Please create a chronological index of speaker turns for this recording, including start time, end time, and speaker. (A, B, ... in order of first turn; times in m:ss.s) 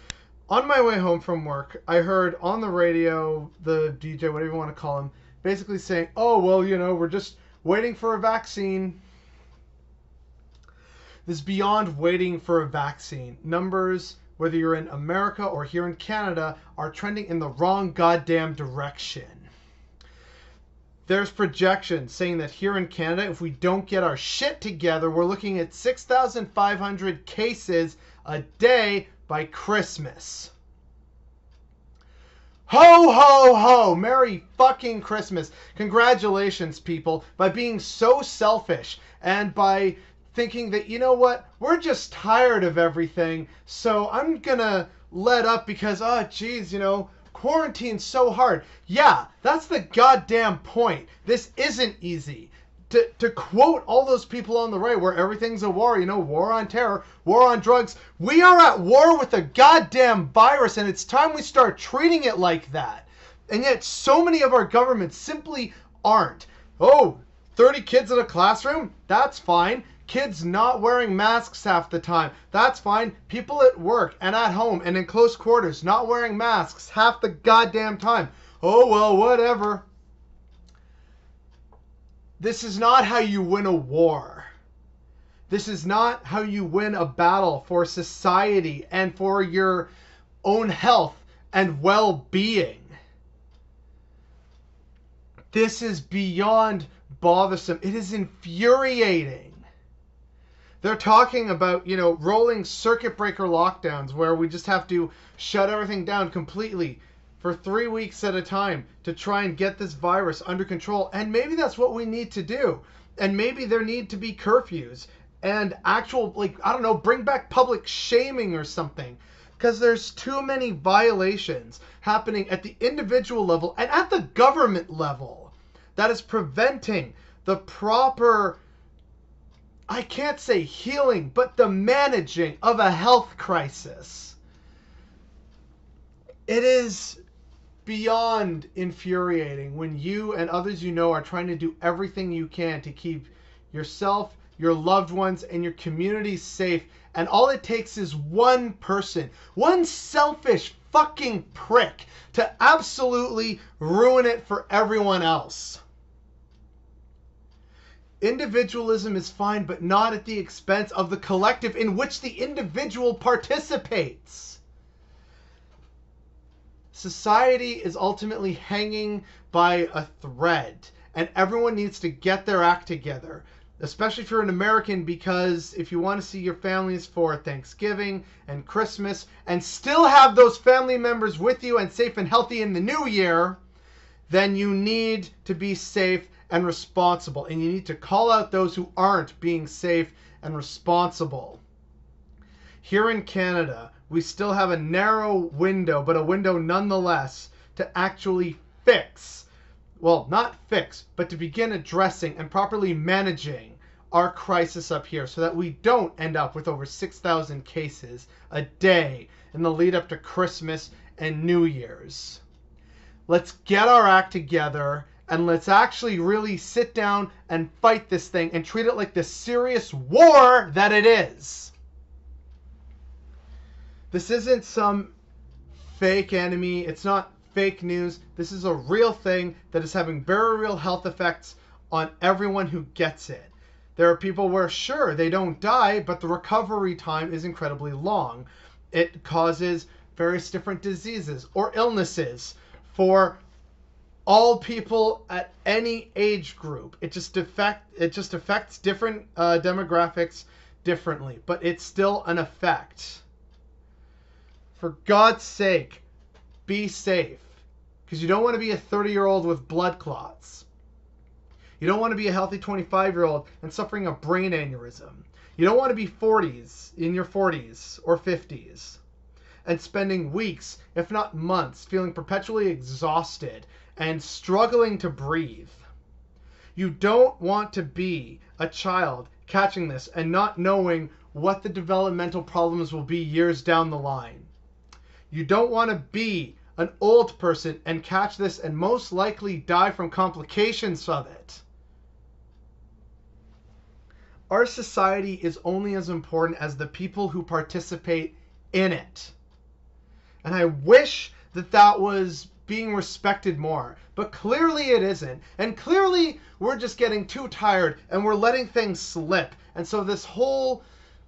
0:00.5-0:09.0 A
0:11.2-0:19.5 A
0:21.0-0:30.5 A
0:32.7-1:19.8 A
1:22.4-1:24.5 A
1:25.5-1:29.9 A
1:30.4-1:33.0 A
1:35.5-1:39.6 A
1:40.8-2:08.6 A
2:09.9-2:14.4 A
2:16.5-2:17.2 A
2:17.8-2:35.8 A
2:38.2-2:44.6 A
2:46.9-3:03.6 A
3:04.3-3:11.6 A
3:12.8-3:19.5 A
3:20.0-3:32.4 A
3:33.3-3:41.7 A
3:44.1-3:45.1 A
3:45.8-4:03.4 A
4:04.2-4:13.2 A
4:14.7-4:16.0 A
4:16.6-4:17.5 A
4:18.1-4:20.6 A
4:21.8-4:29.0 A
4:29.6-4:35.8 A
4:36.8-4:44.5 A
4:45.3-4:51.6 A
4:54.5-4:59.3 A
5:00.4-5:10.8 A